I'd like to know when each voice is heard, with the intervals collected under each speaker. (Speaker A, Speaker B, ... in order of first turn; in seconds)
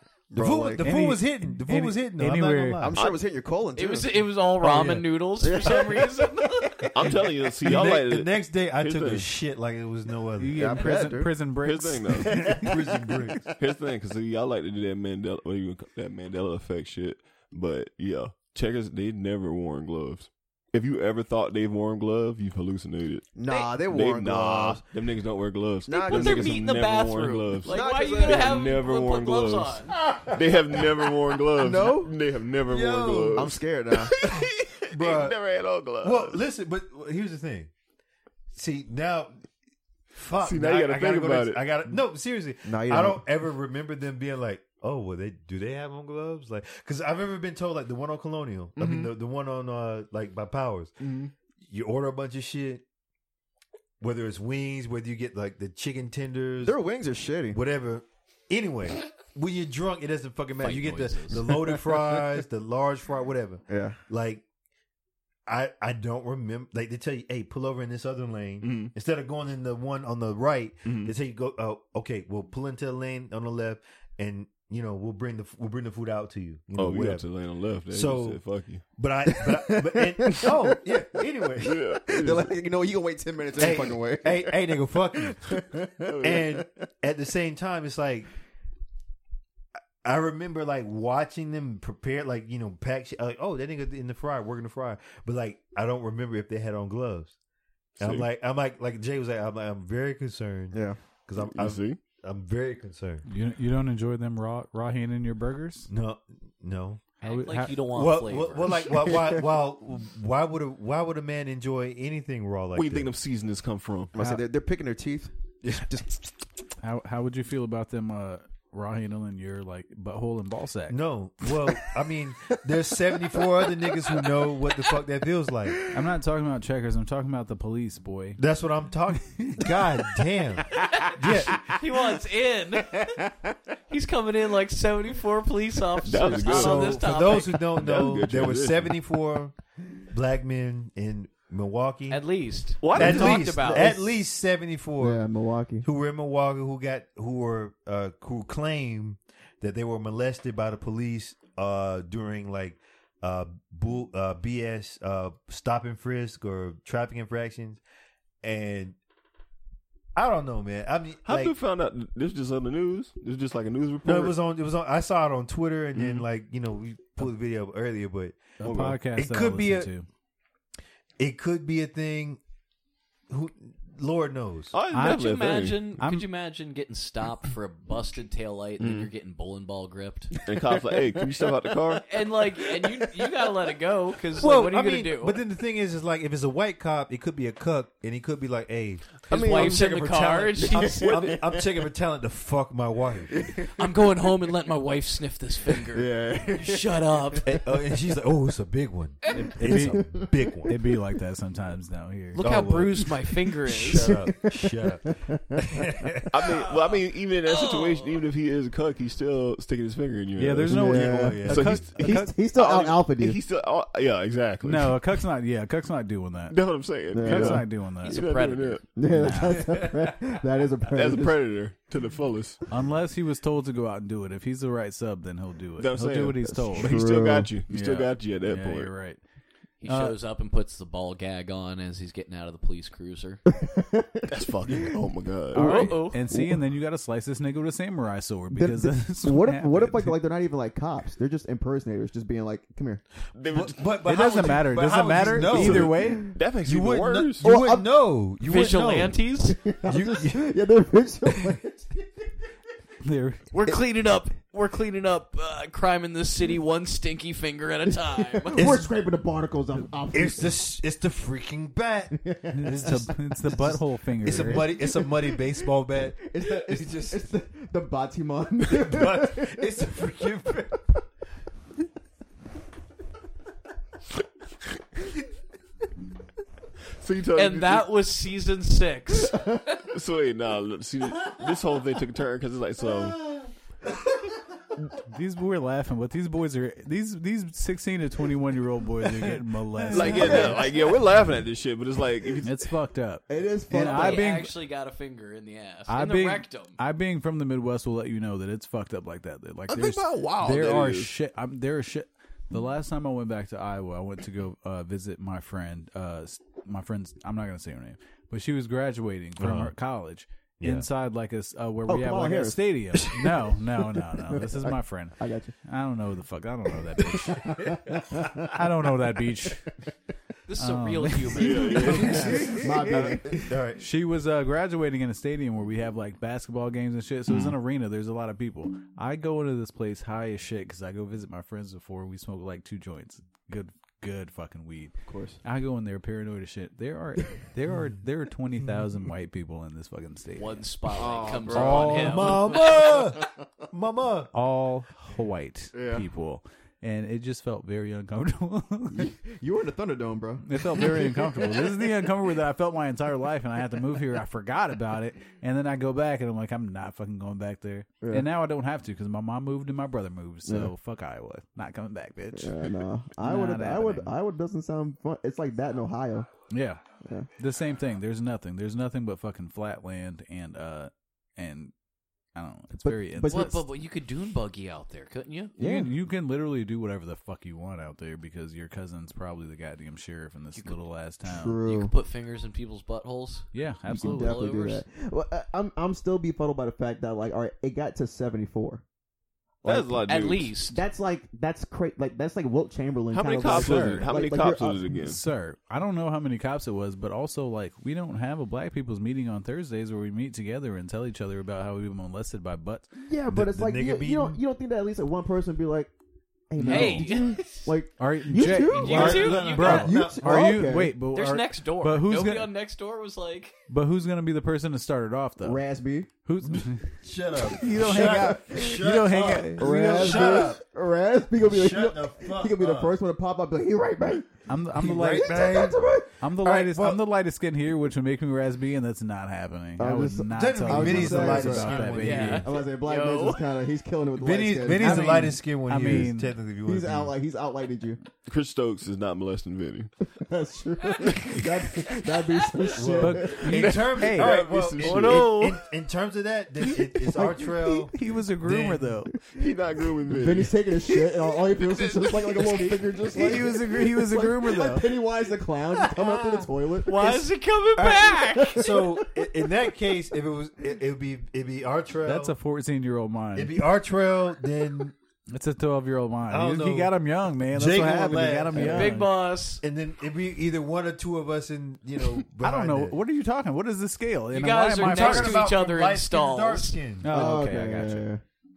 Speaker A: 0.3-0.8, 2.8-4.3, 5.4-6.9, 10.5-11.3, 12.1-13.6, 23.4-24.8, 25.9-26.7, 27.7-28.8, 30.1-30.8, 31.5-32.1, 33.3-34.1, 42.6-43.2, 56.6-57.6, 63.7-64.0, 79.3-80.8, 82.1-86.7, 100.7-101.0, 109.0-109.3, 114.1-116.1, 123.2-123.9, 132.9-133.3, 142.9-144.0, 145.0-145.8, 189.3-189.8, 190.6-191.6, 193.3-193.9, 195.8-198.1, 199.5-200.7, 203.9-205.9, 210.7-213.4, 217.1-217.6, 218.9-221.4, 226.5-227.5, 233.6-234.3, 235.6-236.6, 238.5-243.0, 247.4-247.9, 249.5-251.9, 257.9-260.6, 262.1-263.0, 264.3-265.4, 266.0-269.9, 290.1-290.7, 293.3-294.3, 311.9-313.2, 314.1-315.5, 317.4-318.4, 321.9-323.4, 335.1-335.4, 340.9-342.0, 348.9-351.7, 358.0-358.3, 360.4-360.7, 362.4-366.3, 372.7-373.6, 375.6-375.9, 381.3-381.9, 383.9-388.8, 389.6-390.1, 390.6-394.9, 403.0-405.9, 406.5-411.0, 415.4-416.1, 417.7-418.8, 419.6-424.3, 425.0-426.1, 429.8-435.3, 436.6-438.0, 440.1-443.4, 447.1-447.9, 450.1-459.7, 468.5-468.9, 477.1-478.2
Speaker B: 0.4-3.0, 7.0-10.9, 12.3-13.5, 32.6-33.5, 34.1-35.4, 36.0-37.7, 38.5-39.3, 40.1-51.0, 51.6-52.8, 54.0-56.8, 57.5-64.4, 65.5-77.3, 77.9-82.0, 83.6-85.6, 86.2-88.3, 90.0-97.3, 98.0-103.2, 105.9-107.0, 107.9-113.1, 120.9-125.8, 128.4-131.7, 136.4-139.5, 140.1-142.2, 142.9-145.2, 145.8-157.8, 158.4-158.9, 160.1-161.6, 164.0-169.9, 171.2-172.4, 173.3-174.7, 184.4-193.4, 197.4-200.7, 202.4-206.7, 210.9-211.8, 243.5-249.2, 249.9-250.5, 258.5-258.9, 260.1-267.2, 268.7-270.8, 290.0-290.5, 309.4-309.7, 310.6-310.9, 318.0-318.4, 322.4-323.8, 341.9-344.3, 403.3-404.4, 408.8-410.7, 416.4-420.6, 421.4-422.9, 424.8-427.0, 430.3-432.5, 434.2-437.1, 442.6-448.9, 458.5-462.3, 463.4-464.9, 466.3-466.9, 467.5-468.9, 469.6-473.0, 474.8-477.1
Speaker C: 0.8-2.8, 4.6-5.0, 10.4-12.5, 103.2-105.9, 107.2-107.8, 116.8-121.0, 125.9-128.4, 168.6-170.1, 174.9-175.2, 176.0-176.2, 199.3-202.4, 210.4-212.3, 214.6-216.6, 217.2-218.2, 219.1-219.7, 222.7-227.1, 227.7-229.2, 229.8-230.1, 235.5-240.2, 244.0-246.2, 253.0-253.5, 262.5-264.7, 285.0-290.6, 292.4-294.5, 295.9-317.5, 318.5-319.7, 320.6-323.1, 323.8-340.5, 341.5-342.4, 344.3-349.1, 350.4-362.6, 363.2-364.1, 366.5-366.8, 367.4-371.7, 372.3-373.6, 375.6-381.6, 383.5-384.4, 393.5-394.0, 394.9-402.9, 406.6-407.2, 408.0-412.5, 413.7-415.6, 416.2-416.9, 417.5-420.4, 424.5-432.4, 434.7-436.3, 443.0-444.4, 447.1-449.1, 453.1-454.9, 462.0-463.6, 465.3-469.1, 472.4-475.5, 477.0-478.0
Speaker D: 3.8-6.9, 26.0-29.9, 60.6-61.5, 107.2-109.0, 131.7-133.2, 133.9-137.7, 142.1-144.0, 174.9-180.4, 182.1-185.4, 189.3-191.3, 193.7-197.5, 202.3-204.3, 207.5-208.2, 218.0-218.8, 229.8-233.4, 235.5-236.2, 248.4-249.6, 253.5-258.6, 277.3-279.4, 293.9-296.8, 320.5-322.2, 340.4-342.6, 373.3-375.5, 381.6-384.8, 390.1-390.8, 406.6-407.7, 408.6-409.9, 411.1-413.5, 431.9-433.4, 444.8-445.6, 456.8-458.6, 468.5-469.6, 474.3-476.8
Speaker E: 6.9-9.3, 11.6-12.5, 13.6-23.3, 23.9-29.8, 30.3-36.4, 40.4-41.6, 48.8-49.1, 51.0-51.3, 68.6-68.9, 70.8-71.1, 76.8-78.9, 81.6-82.5, 86.1-86.4, 98.0-98.3, 101.4-102.0, 112.7-114.1, 136.0-137.0, 137.7-138.9, 142.8-143.6, 161.2-164.3, 165.9-166.2, 168.6-169.0, 174.7-175.8, 178.8-179.1, 180.4-182.1, 191.1-191.3, 206.3-215.0, 216.5-218.8, 220.9-222.6, 225.8-228.9, 234.3-235.9, 243.3-243.8, 245.3-247.5, 277.0-277.9, 279.9-283.3, 289.9-292.6, 299.7-301.1, 321.4-322.6, 341.0-341.8, 345.7-346.0, 389.6-390.5, 393.1-395.2, 438.2-439.9, 443.5-445.4, 449.3-450.5, 451.5-452.8